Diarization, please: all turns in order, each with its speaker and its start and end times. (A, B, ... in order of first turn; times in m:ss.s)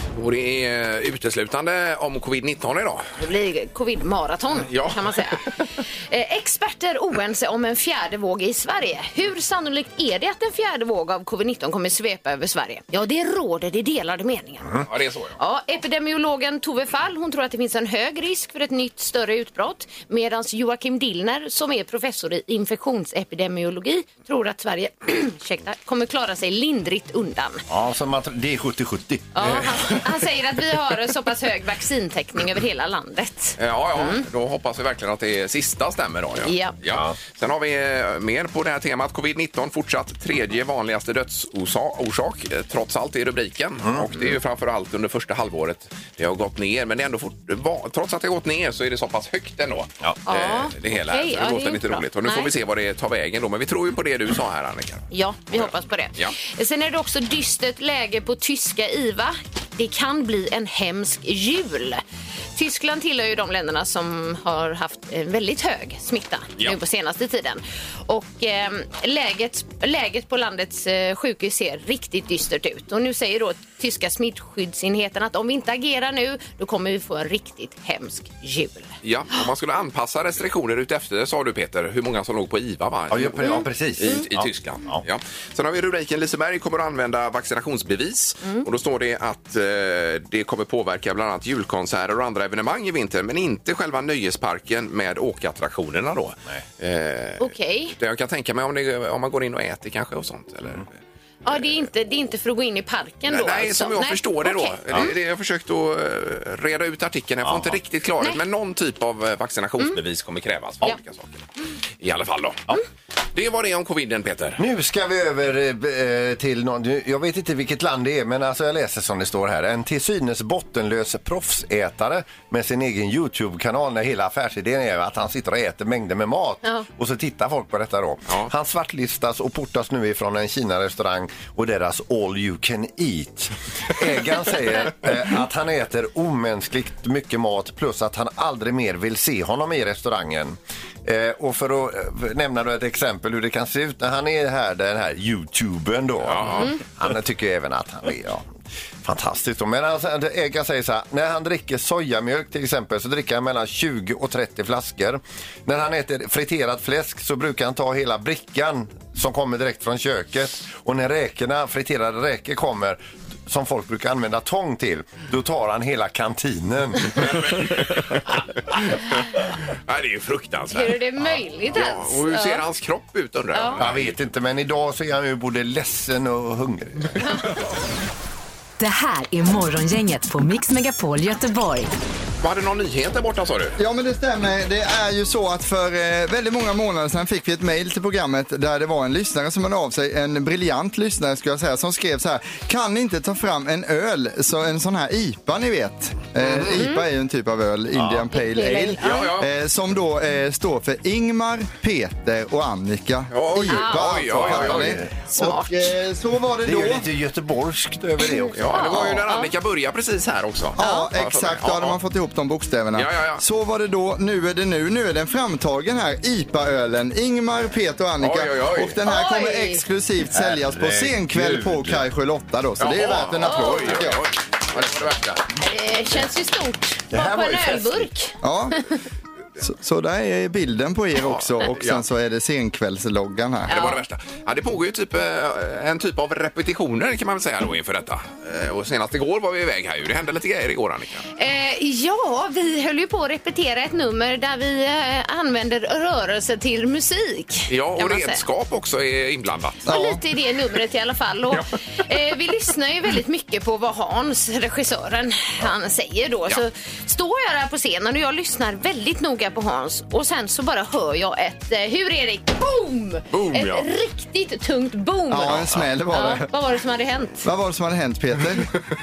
0:00.1-0:03.0 A
0:03.2-0:14.8 B
0:04.7-0:05.2 A
0:14.8-0:15.4 A
0:15.4-0:27.6 B
0:27.7-0:30.0 C
0:29.3-0:34.2 B
0:29.4-0:29.7 A
0:33.6-0:56.3 A
0:36.4-0:36.8 B
0:36.8-0:37.2 C
0:43.8-0:44.1 C
0:50.3-0:52.5 B
0:55.1-1:02.0 B
1:02.6-1:19.0 B
1:19.0-1:40.9 A
1:23.1-1:25.0 C
1:23.4-1:24.2 B
1:37.4-1:38.0 B
1:41.4-1:45.1 B
1:43.3-1:51.4 A
1:47.4-1:47.8 C
1:52.0-1:52.7 A
1:53.4-1:54.6 A
1:54.6-2:28.5 C
2:26.2-2:26.8 A
2:29.0-2:47.6 C
2:47.2-2:54.2 A
2:50.7-2:52.6 B
2:53.5-2:53.8 B
2:53.8-2:57.4 C
2:58.8-3:01.9 D
3:02.4-3:03.8 A
3:03.8-3:27.0 E
3:16.4-3:16.8 A
3:16.7-3:17.0 B
3:18.0-3:18.2 C
3:18.3-3:19.3 B
3:19.0-3:19.5 A
3:23.3-3:25.0 A
3:23.6-3:24.3 B
3:24.4-3:25.1 C
3:25.3-3:25.9 B
3:26.6-3:29.1 C
3:28.2-3:29.5 B
3:28.5-3:32.0 A
3:30.8-3:44.2 E
3:30.8-3:31.1 B
3:33.0-3:33.4 A
3:38.2-3:39.0 A
3:39.0-3:39.8 B
3:40.3-3:42.0 C
3:42.8-3:45.4 A
3:43.4-3:43.9 B
3:45.6-3:48.4 B
3:47.1-3:48.1 C
3:48.4-3:48.8 E
3:49.6-3:53.8 E
3:51.2-3:52.0 A
3:53.7-4:01.3 A
3:53.7-3:54.0 B
4:01.4-4:08.4 B
4:07.7-4:09.9 A
4:09.9-4:10.2 E
4:09.9-4:27.5 B
4:23.3-4:23.9 A
4:25.3-4:26.5 E
4:25.4-4:25.9 A
4:27.4-4:28.7 E